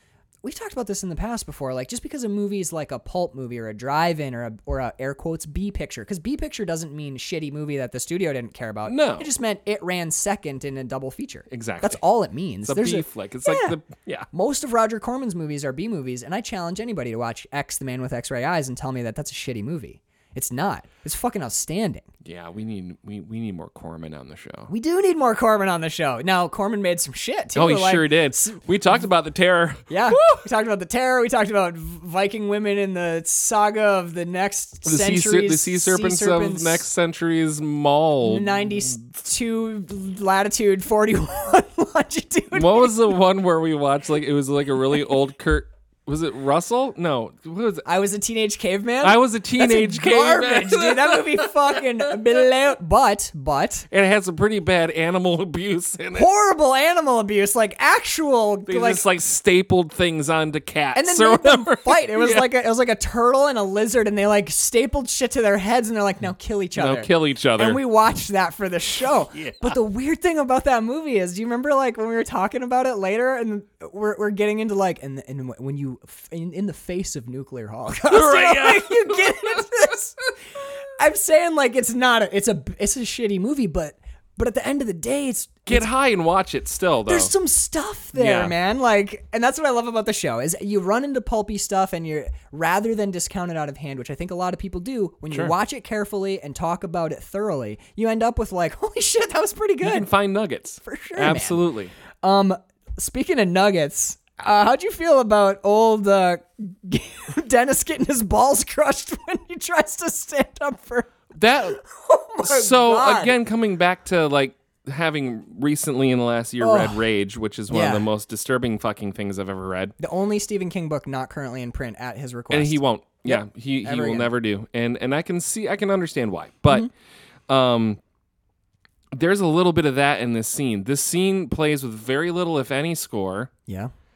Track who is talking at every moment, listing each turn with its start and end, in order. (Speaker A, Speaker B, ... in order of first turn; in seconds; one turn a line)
Speaker A: 0.4-13.8
Speaker B: 8.9-9.3
Speaker B: 11.5-12.0
Speaker B: 12.7-14.3
Speaker A: 14.3-22.1
Speaker B: 22.2-24.7
Speaker A: 24.7-28.6
Speaker B: 27.6-30.4
Speaker A: 29.9-36.9
Speaker B: 34.9-39.0
Speaker A: 38.2-43.1
Speaker B: 42.5-47.9
Speaker A: 47.9-53.9
Speaker B: 49.0-52.1
Speaker B: 53.9-56.3
Speaker A: 56.1-59.0
Speaker B: 58.7-62.5
Speaker A: 61.0-80.2
Speaker B: 66.8-67.8
Speaker B: 69.3-69.8
Speaker B: 78.1-79.7
Speaker A: 81.0-85.9
Speaker B: 85.7-87.3
Speaker A: 87.1-100.1
Speaker B: 88.2-88.5
Speaker B: 99.8-101.9
Speaker A: 100.8-101.6
Speaker A: 102.2-111.2
Speaker B: 111.4-111.8
Speaker A: 111.8-113.4
Speaker B: 112.4-120.0
Speaker A: 116.6-117.1
Speaker A: 117.7-118.1
Speaker A: 120.0-124.3
Speaker B: 122.5-126.9
Speaker B: 127.5-128.0
Speaker B: 129.1-133.5